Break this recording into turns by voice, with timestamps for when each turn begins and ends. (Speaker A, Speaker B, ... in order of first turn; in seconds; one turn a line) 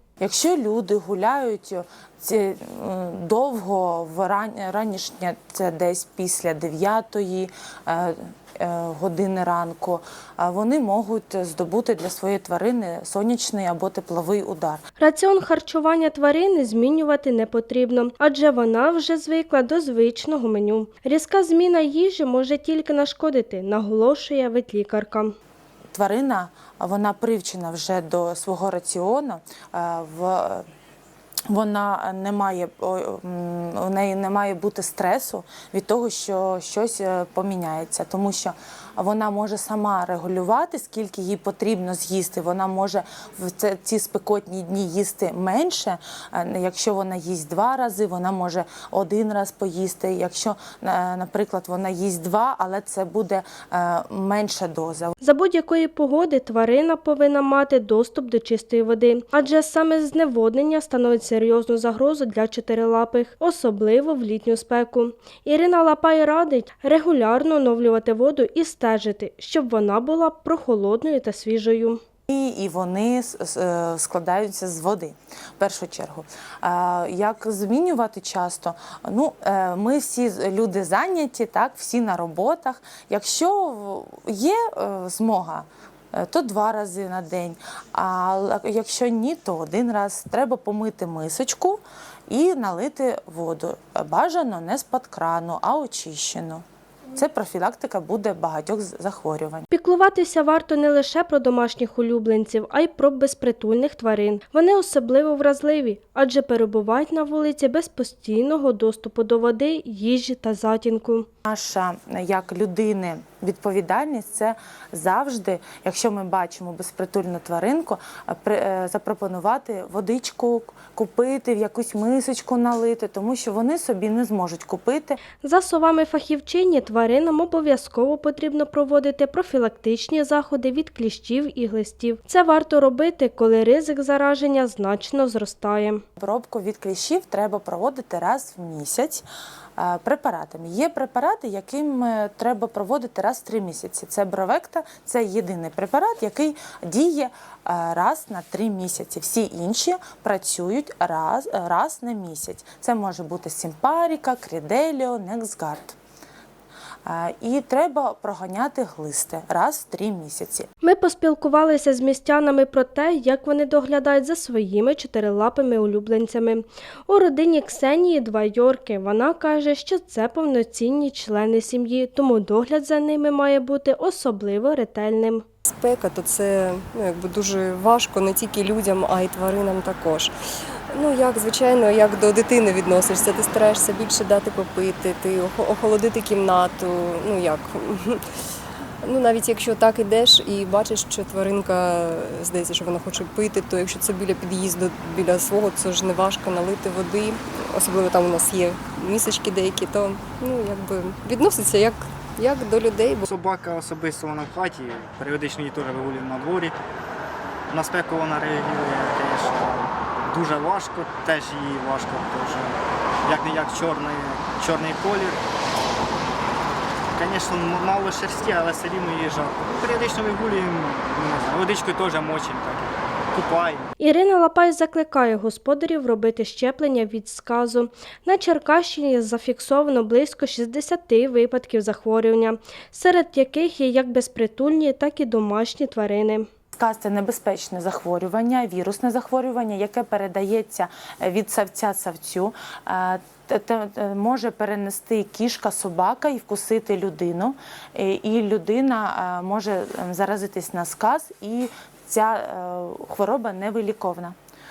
Speaker A: 0.2-14.8
Speaker B: 15.0-25.3
Speaker A: 25.9-30.6
Speaker A: 31.5-55.1
Speaker B: 55.2-72.0
Speaker A: 72.3-99.7
Speaker B: 99.7-111.2
Speaker A: 111.5-125.2
Speaker B: 125.4-136.0
Speaker A: 136.2-139.2
Speaker A: 139.8-155.9
Speaker A: 157.0-160.7
Speaker B: 160.8-175.4
Speaker C: 175.7-188.2
Speaker C: 189.0-203.2
Speaker D: 203.2-206.7
Speaker D: 207.7-215.4
Speaker D: 217.1-223.9
Speaker B: 224.0-236.4
Speaker A: 236.8-254.3